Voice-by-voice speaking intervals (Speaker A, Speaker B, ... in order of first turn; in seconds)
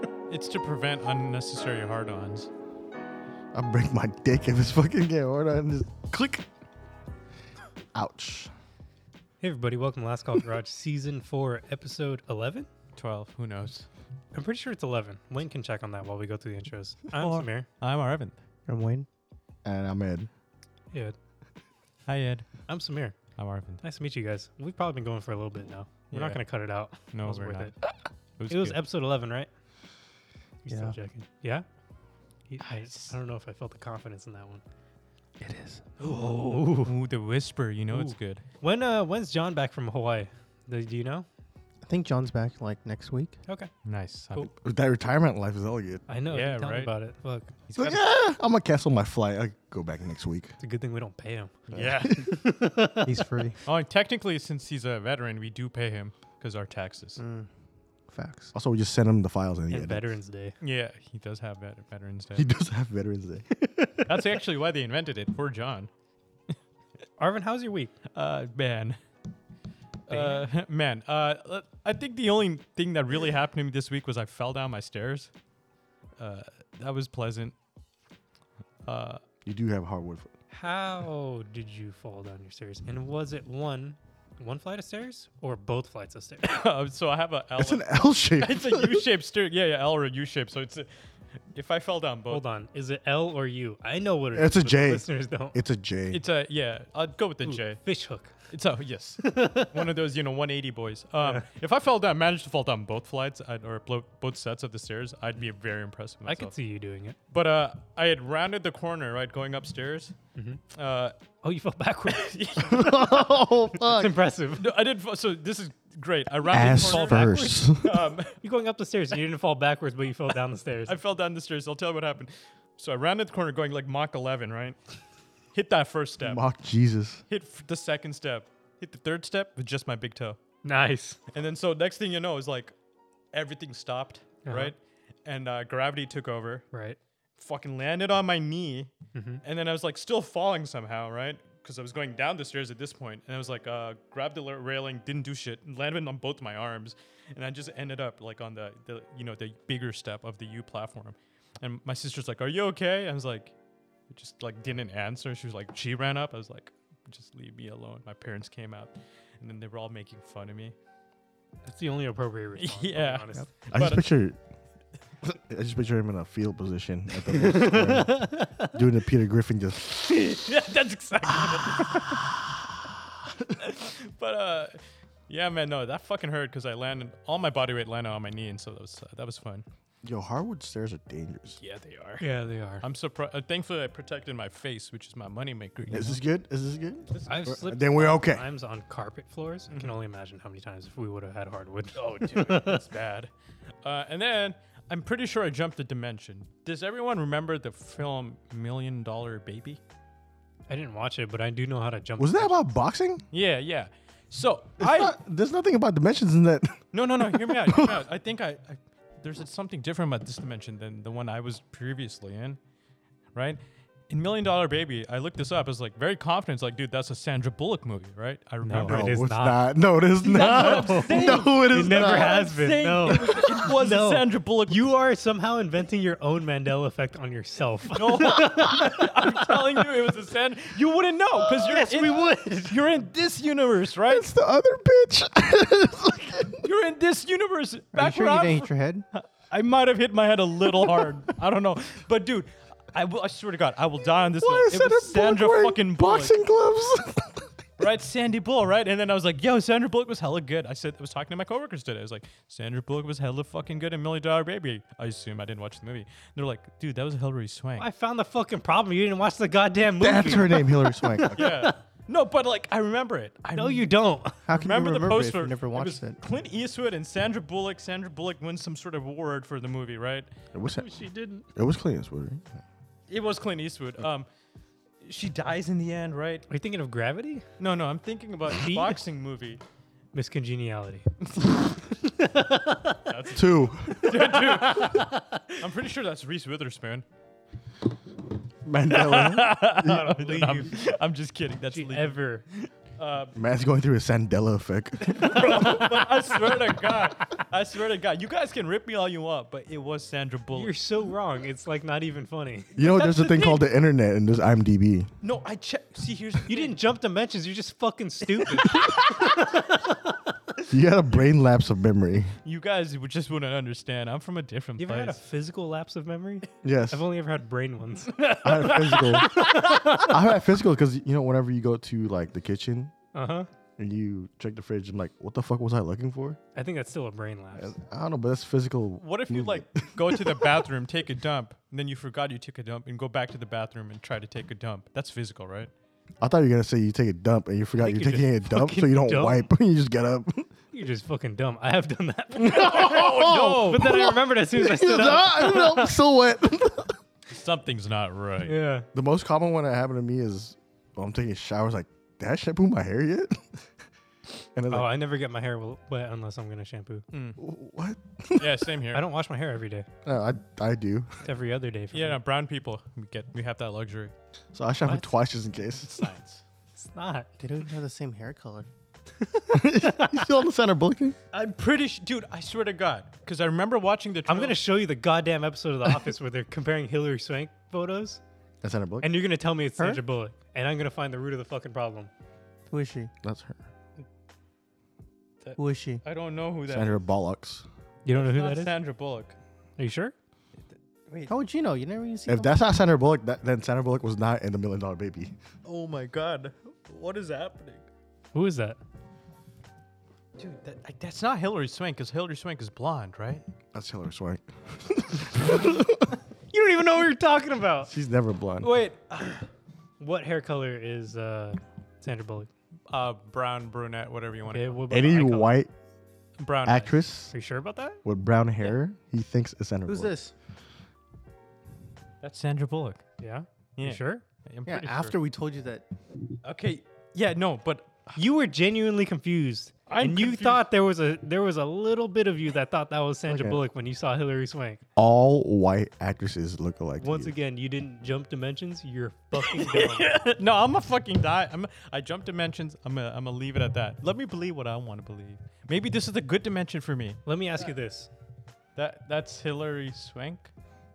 Speaker A: 0.3-2.5, 12.9-13.9, 17.2-18.3, 22.1-22.5, 23.4-23.8, 26.1-26.4, 27.1-27.7, 28.4-28.8, 32.6-33.1, 36.7-38.4, 43.8-44.5, 46.3-46.9, 51.7-52.3, 53.6-57.2, 60.6-62.5, 64.0-65.9, 68.1-69.0, 70.1-75.3, 76.2-77.5, 78.8-79.2, 86.4-90.9, 91.5-92.4, 96.1-97.8, 98.5-106.5, 107.3-110.1, 110.7-111.2, 112.1-113.0, 114.6-118.3, 120.9-124.8, 125.5-126.4, 127.3-130.4, 131.3-132.7, 133.3-136.6, 137.4-138.9, 139.4-153.5, 154.1-160.7, 162.6-164.1, 170.1-172.1, 173.6-179.6, 181.6-182.3, 182.8-186.2, 187.1-187.4, 189.7-189.9, 191.9-193.3, 193.8-199.8, 203.3-205.1, 206.9-212.6, 213.3-219.2, 220.3-224.9, 227.9-234.3, 236.6-246.3, 247.8-257.9, 261.3-263.9, 264.5-270.3, 273.1-274.3, 275.0-276.5, 277.6-279.6, 283.1-287.0, 288.9-293.4, 295.1-300.7, 305.2-306.8, 312.4-315.2, 329.0-335.7, 342.4-343.9, 347.3-348.6, 357.1-357.4, 358.4-359.0, 361.9-364.1, 365.8-366.4, 371.3-374.6, 385.4-387.0, 388.1-389.4, 390.7-391.3, 395.6-397.9, 400.4-403.4, 408.6-409.4, 412.9-414.8, 416.4-417.0, 422.2-423.0, 423.8-425.1, 426.4-428.2, 429.9-430.6, 439.4-447.2, 448.8-450.5
Speaker B: 3.5-6.5, 7.9-8.5, 19.6-20.3, 44.5-46.0, 47.7-50.5, 51.7-52.1, 58.5-60.1, 62.4-63.5, 79.4-80.3, 87.6-89.1, 94.3-96.2, 112.7-114.1, 116.5-118.0, 126.2-127.2, 163.7-164.4, 165.2-170.1, 180.0-181.6, 185.9-188.4, 202.2-203.2, 204.8-208.0, 218.7-222.4, 234.1-236.6, 244.4-247.5, 260.0-261.4, 270.5-270.9, 271.5-272.5, 283.3-284.1, 288.6-290.3, 293.3-295.3, 302.8-305.1, 310.7-312.4, 316.6-317.0, 318.4-322.9, 323.8-326.4, 327.5-330.5, 336.2-340.5, 342.4-347.0, 348.9-353.6, 354.5-354.9, 357.4-358.7, 360.0-361.1, 364.5-366.0, 369.5-371.2, 378.6-379.1, 383.2-383.6, 386.7-387.6, 392.3-395.3, 403.7-406.1, 407.9-408.7, 414.9-415.7, 416.6-417.3, 418.0-420.1, 433.3-433.6, 434.9-437.3
Speaker C: 9.4-12.7, 14.3-17.7, 22.7-23.1, 23.8-27.7, 28.5-29.5, 30.6-31.6, 32.5-34.6, 36.0-36.9, 37.9-41.3, 46.1-48.0, 50.6-51.5, 52.1-53.1, 59.7-60.5, 67.2-67.9, 70.1-70.5, 80.5-86.5, 92.3-95.5, 97.4-98.3, 99.2-99.7, 101.2-101.5, 106.2-107.2, 110.3-110.6, 111.4-114.7, 116.5-117.7, 118.4-121.0, 130.6-131.2, 134.4-134.7, 136.7-137.0, 139.1-139.4, 161.7-163.5, 167.4-168.7, 182.2-182.8, 187.2-192.8, 200.7-202.6, 218.6-219.6, 220.2-229.8, 231.4-232.8, 257.8-261.8, 263.5-264.4, 270.7-271.5, 276.5-277.4, 278.6-279.0, 280.1-281.1, 282.2-283.1, 284.0-285.6, 289.8-290.9, 291.7-292.4, 295.2-296.2, 300.5-303.6, 306.5-310.3, 314.8-320.1, 323.1-323.5, 326.5-327.7, 337.8-339.5, 340.7-345.9, 348.4-348.9, 354.7-357.0, 358.9-359.9, 361.2-362.2, 366.7-367.3, 369.3-370.1, 374.3-378.2, 379.0-382.1, 388.0-388.7, 389.8-390.1, 398.3-398.8, 406.5-407.9, 410.0-412.5, 414.5-415.6, 417.3-418.0, 423.2-424.2, 428.1-434.8, 437.0-440.3, 447.2-448.1
Speaker D: 18.7-19.1, 30.7-30.9, 35.4-36.0, 41.8-43.4, 53.0-53.6, 57.2-57.5, 58.1-58.5, 112.8-113.5, 237.9-239.1, 264.4-266.2, 367.4-368.7, 379.8-380.0, 382.7-383.1, 385.6-386.0, 391.3-392.6, 419.9-420.3, 424.6-425.8